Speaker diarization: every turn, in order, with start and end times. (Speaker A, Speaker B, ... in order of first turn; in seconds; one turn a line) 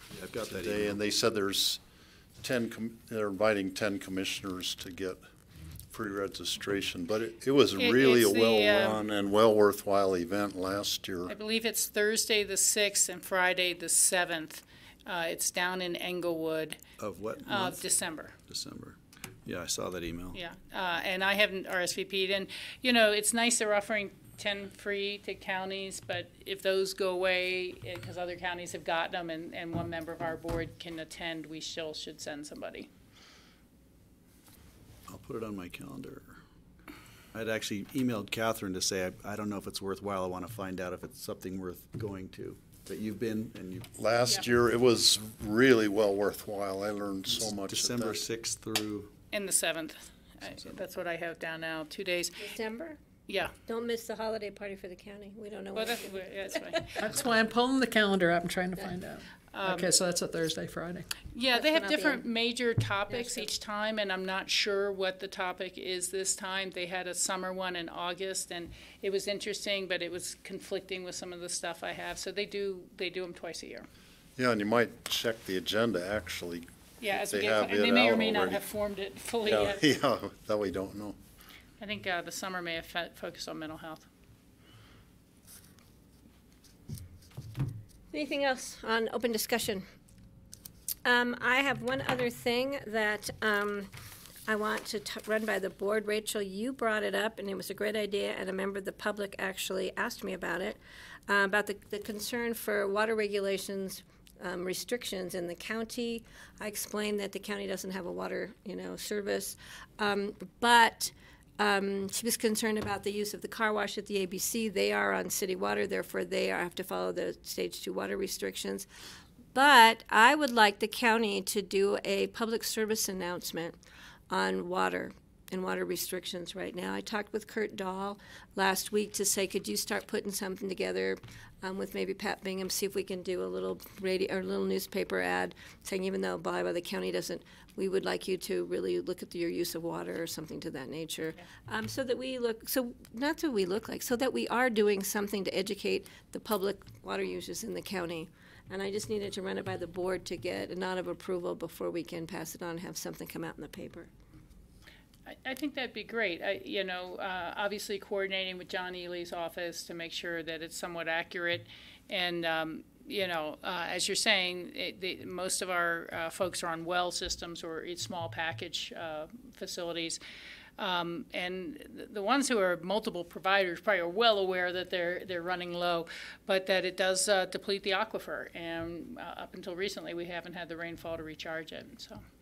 Speaker A: 0.1-1.0
Speaker B: 0.5-1.8
Speaker B: 2.4-5.2
Speaker B: 5.9-11.4
Speaker C: 7.8-9.0
Speaker C: 11.3-16.8
Speaker A: 17.0-17.9
Speaker C: 17.4-18.4
Speaker A: 18.5-20.4
Speaker C: 20.3-32.9
Speaker A: 35.1-36.4
Speaker A: 37.3-43.9
Speaker B: 44.0-48.2
Speaker A: 47.3-49.1
Speaker C: 49.3-52.4
Speaker D: 52.4-53.0
Speaker C: 53.3-53.5
Speaker D: 53.7-57.2
Speaker C: 55.8-57.0
Speaker E: 57.0-61.1
Speaker C: 59.5-59.9
Speaker C: 61.3-73.9
Speaker D: 61.5-62.2
Speaker D: 63.1-63.5
Speaker B: 74.4-78.6
Speaker C: 77.0-79.8
Speaker B: 79.4-81.2
Speaker C: 81.8-84.1
Speaker D: 88.1-89.9
Speaker D: 91.0-93.9
Speaker D: 94.5-118.9
Speaker D: 119.5-123.8
Speaker D: 124.3-154.1
Speaker C: 155.3-170.2
Speaker C: 170.8-182.2